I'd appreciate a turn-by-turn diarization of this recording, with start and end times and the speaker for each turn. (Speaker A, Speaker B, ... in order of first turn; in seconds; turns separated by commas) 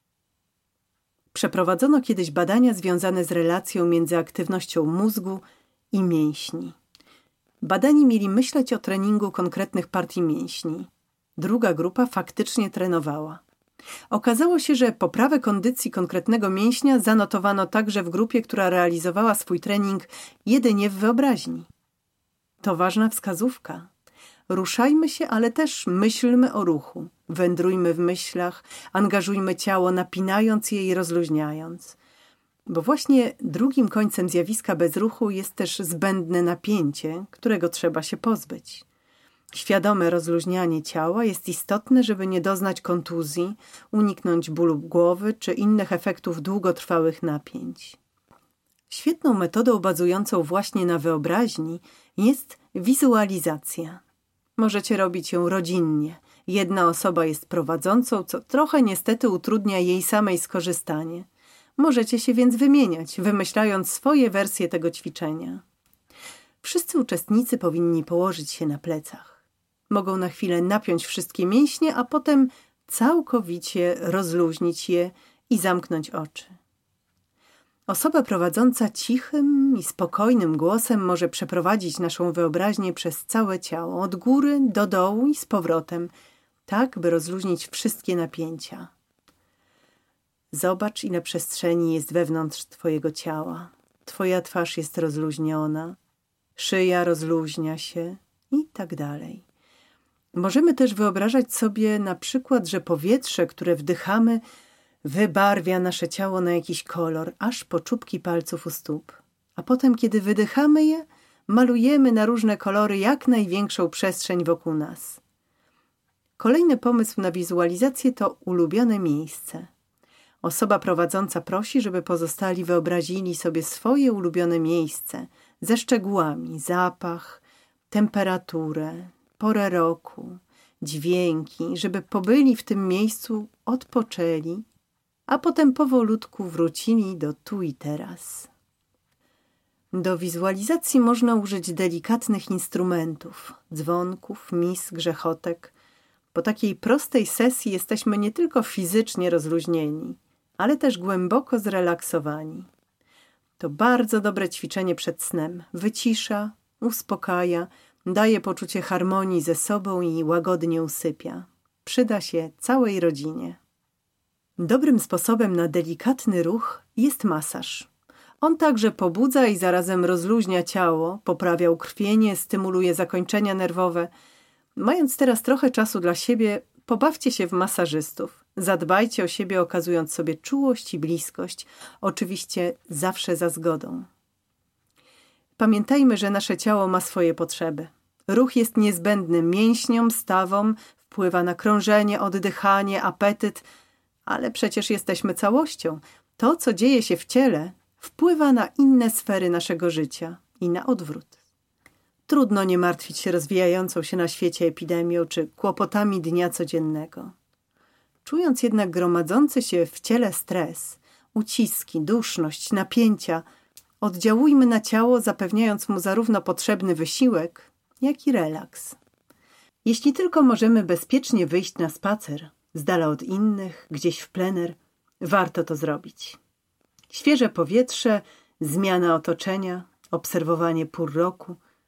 Speaker A: 1.3-6.8, Speaker A: 7.6-13.4, Speaker A: 14.1-21.7, Speaker A: 22.6-23.9, Speaker A: 24.5-32.0, Speaker A: 32.6-38.8, Speaker A: 39.5-48.0, Speaker A: 48.9-54.0, Speaker A: 54.6-65.6, Speaker A: 66.6-76.5, Speaker A: 77.9-86.1, Speaker A: 86.7-88.9, Speaker A: 90.5-96.0, Speaker A: 96.5-99.4, Speaker A: 100.3-104.4, Speaker A: 105.0-115.2, Speaker A: 116.4-119.7, Speaker A: 120.4-134.7, Speaker A: 135.3-138.5, Speaker A: 139.9-145.7, Speaker A: 146.3-152.7, Speaker A: 153.6-163.6, Speaker A: 164.6-167.9, Speaker A: 168.4-174.1, Speaker A: 174.8-184.1, Speaker A: 185.6-193.7, Speaker A: 194.2-201.4, Speaker A: 202.3-207.3, Speaker A: 208.2-213.4, Speaker A: 214.0-219.0, Speaker A: 219.8-226.4, Speaker A: 227.1-231.6